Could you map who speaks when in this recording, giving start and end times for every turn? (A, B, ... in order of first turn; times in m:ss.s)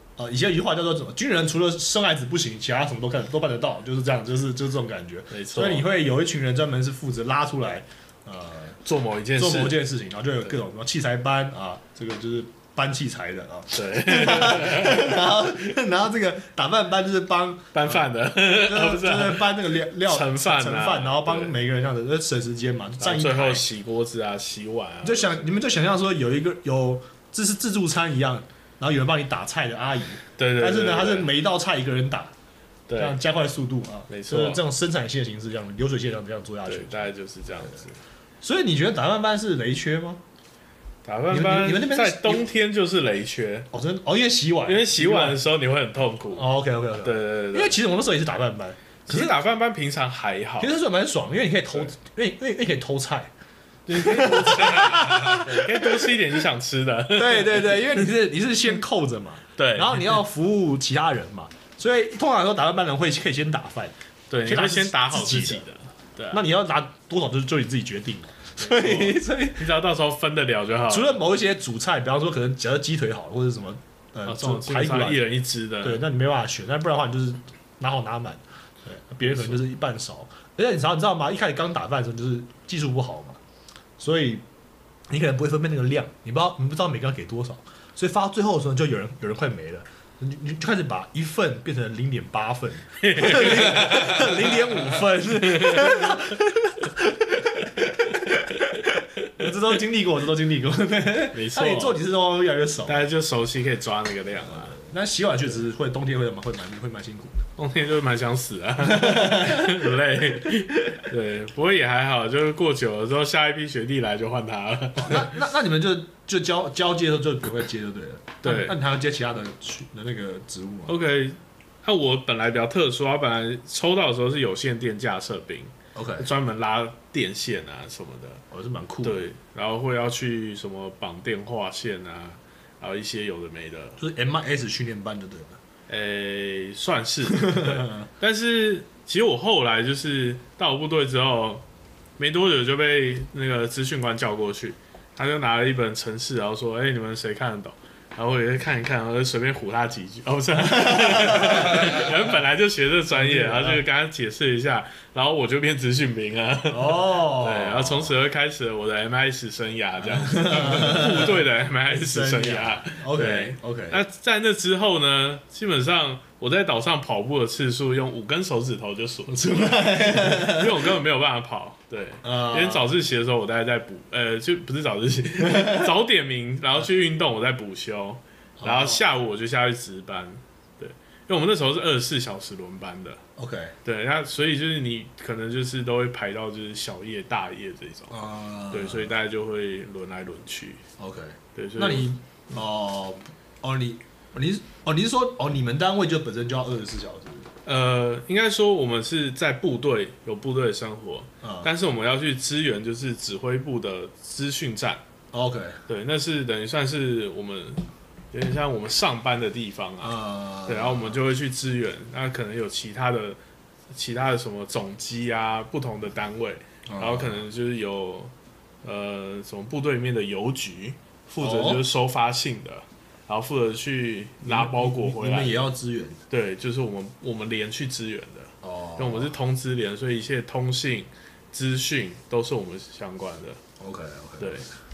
0:00.2-0:08.8 A
0:05.3-0:05.9 B
0:08.8-0:09.9 B
0:09.4-0:23.6 A
0:13.7-0:15.3 B
0:17.7-0:21.6 B
0:23.0-0:25.5 B
0:25.0-0:32.3 A
0:30.4-0:31.3 B
0:32.9-0:33.2 B
0:33.0-0:37.8 A
0:34.1-0:34.6 B
0:36.7-0:38.0 B
0:38.4-0:40.2 A
0:41.0-0:43.7 B
0:41.3-0:42.5 A
0:43.7-0:45.4 A
0:44.6-0:46.5 B
0:46.3-0:49.4 A
0:47.0-0:47.8 B
0:49.1-0:50.7 B
0:50.6-0:53.3 A
0:53.9-0:58.1 B
0:53.9-0:56.2 A
0:57.1-1:05.6 A
0:59.6-1:00.2 B
1:04.3-1:06.4 B
1:06.3-1:09.6 A
1:08.6-1:11.2 B
1:10.9-1:15.3 A
1:14.2-1:16.0 B
1:15.8-1:23.4 A
1:24.0-1:24.4 A
1:25.1-1:43.1 A
1:33.0-1:34.1 B
1:35.5-1:36.3 B
1:41.3-1:42.0 B
1:42.9-1:44.8 B
1:44.5-1:47.5 A
1:47.6-1:55.4 B
1:48.8-1:49.9 A
1:55.0-2:01.0 A
1:58.4-1:58.8 B
2:00.9-2:08.4 B
2:06.0-2:06.3 A
2:08.5-2:09.2 A
2:09.0-2:14.0 B
2:14.0-2:15.6 A
2:15.9-2:21.6 B
2:17.3-2:18.0 A
2:22.2-3:03.2 B
2:30.7-2:32.0 A
2:33.1-2:33.8 A
2:36.7-2:38.2 A
2:40.0-2:44.0 A
2:49.3-2:50.9 A
2:52.2-2:52.9 A
2:55.4-2:55.9 A
2:58.6-2:59.0 A
3:03.4-3:03.8 A
3:03.8-3:08.2 B
3:08.1-3:09.1 A
3:08.7-3:10.8 B
3:11.0-3:17.5 A
3:11.6-3:12.1 B
3:17.6-3:25.0 B
3:21.4-3:21.7 A
3:25.3-3:25.8 A
3:25.9-3:33.4 B
3:30.0-3:31.2 A
3:33.9-3:38.3 B
3:36.9-3:37.4 A
3:38.8-3:45.7 B
3:41.4-3:41.8 A
3:44.4-3:46.2 A
3:46.3-3:53.6 B
3:48.6-3:49.4 A
3:53.8-3:54.7 A
3:54.4-3:54.7 B